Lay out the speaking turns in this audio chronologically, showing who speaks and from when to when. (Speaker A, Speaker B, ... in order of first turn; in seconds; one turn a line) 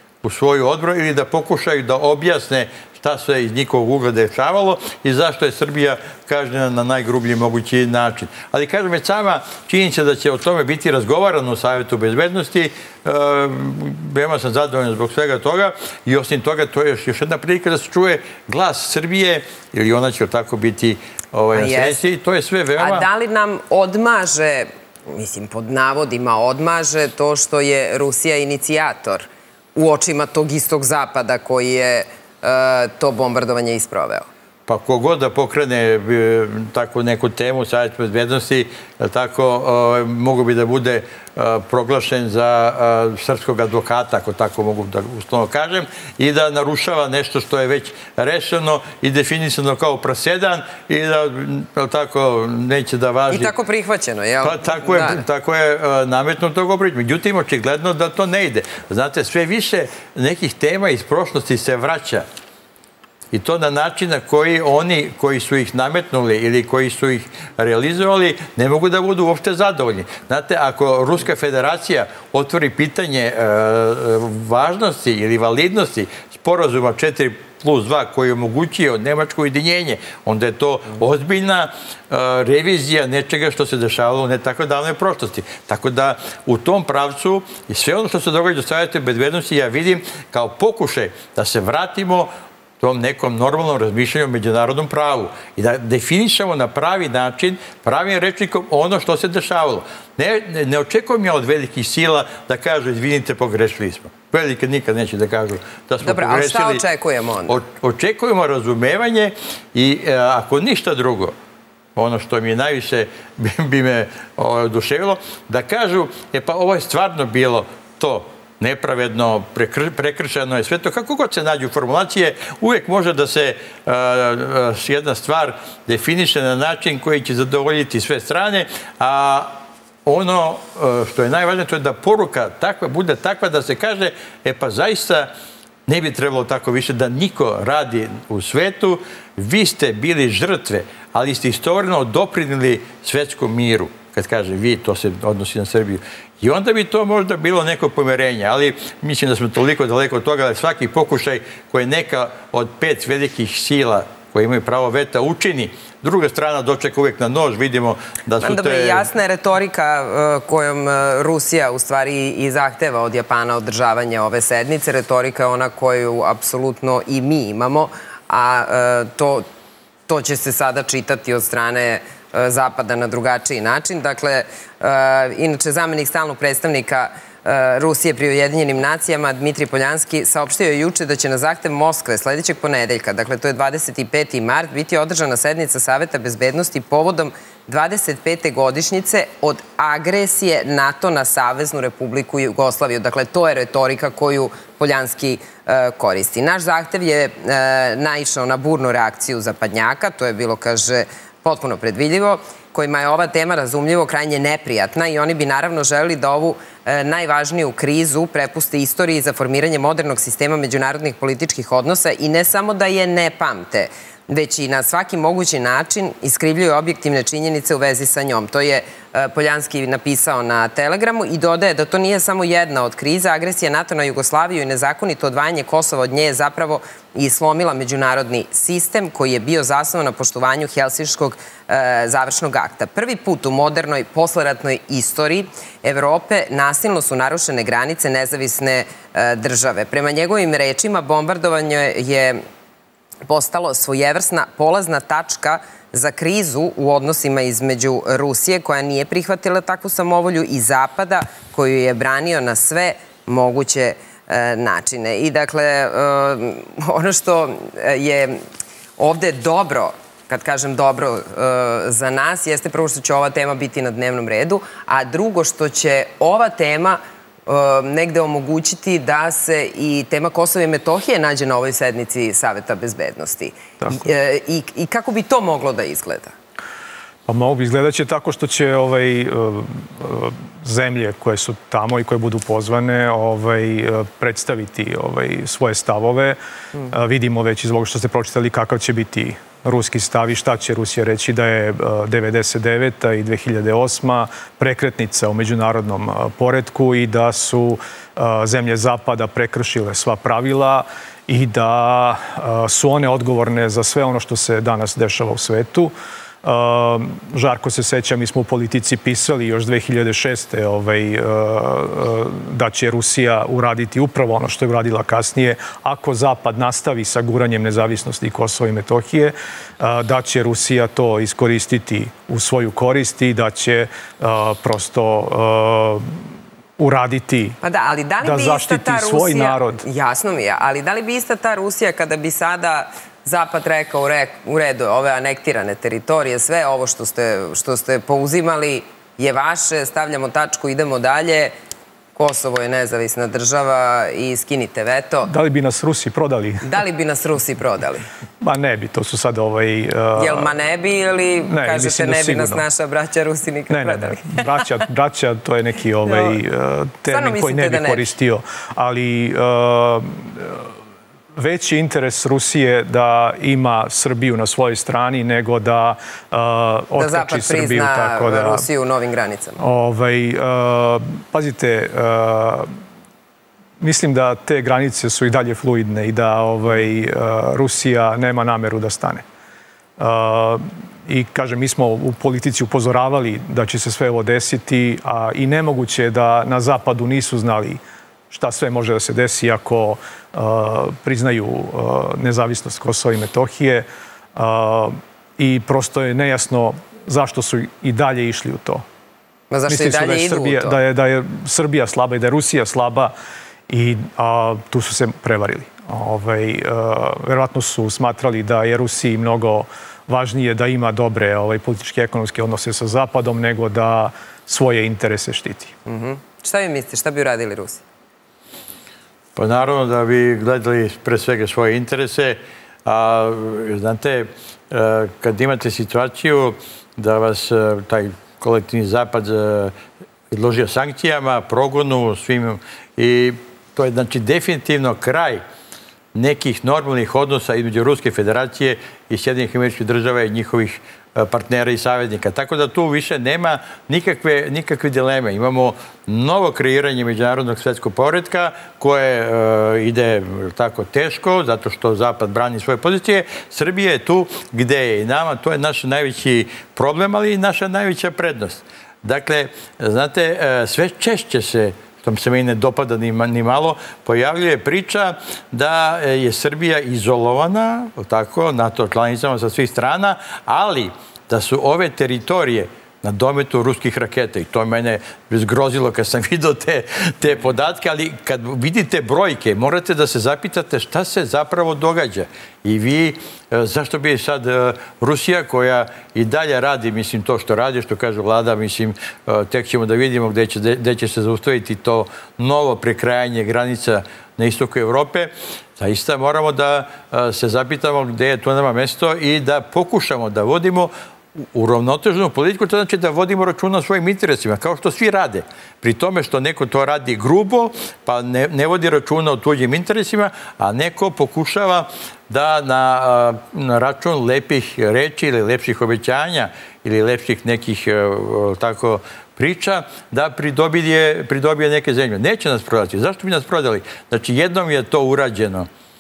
Speaker A: 0.2-23.1
Speaker B: 21.5-22.0
Speaker B: 22.8-34.3
Speaker A: 34.7-53.5
Speaker B: 53.3-55.2
Speaker A: 54.4-62.2
Speaker A: 63.3-106.8
Speaker B: 106.0-107.6
Speaker A: 107.5-111.3
Speaker A: 112.0-135.3
Speaker A: 135.9-159.1
Speaker B: 158.4-169.5
Speaker B: 170.1-242.4
Speaker B: 243.3-258.4
Speaker B: 259.0-276.3
Speaker C: 277.3-286.4
Speaker C: 286.9-305.9
Speaker C: 306.4-326.2
Speaker C: 326.8-327.6
Speaker B: 327.6-341.5
Speaker C: 328.2-329.8
Speaker B: 342.2-345.3
Speaker C: 345.3-346.8
Speaker B: 346.6-348.1
Speaker C: 348.4-350.5
Speaker B: 350.2-354.6
Speaker C: 351.5-352.6
Speaker C: 353.7-360.7
Speaker B: 356.1-356.4
Speaker B: 357.1-358.1
Speaker C: 361.4-368.7
Speaker B: 367.0-369.6
Speaker C: 369.6-372.7
Speaker C: 373.8-379.2
Speaker C: 380.0-398.8
Speaker B: 399.5-400.8
Speaker C: 399.7-403.1
Speaker C: 403.7-415.7
Speaker B: 415.9-417.8
Speaker A: 419.4-429.7
Speaker A: 430.3-435.4
Speaker A: 436.1-500.9
Speaker A: 501.5-525.7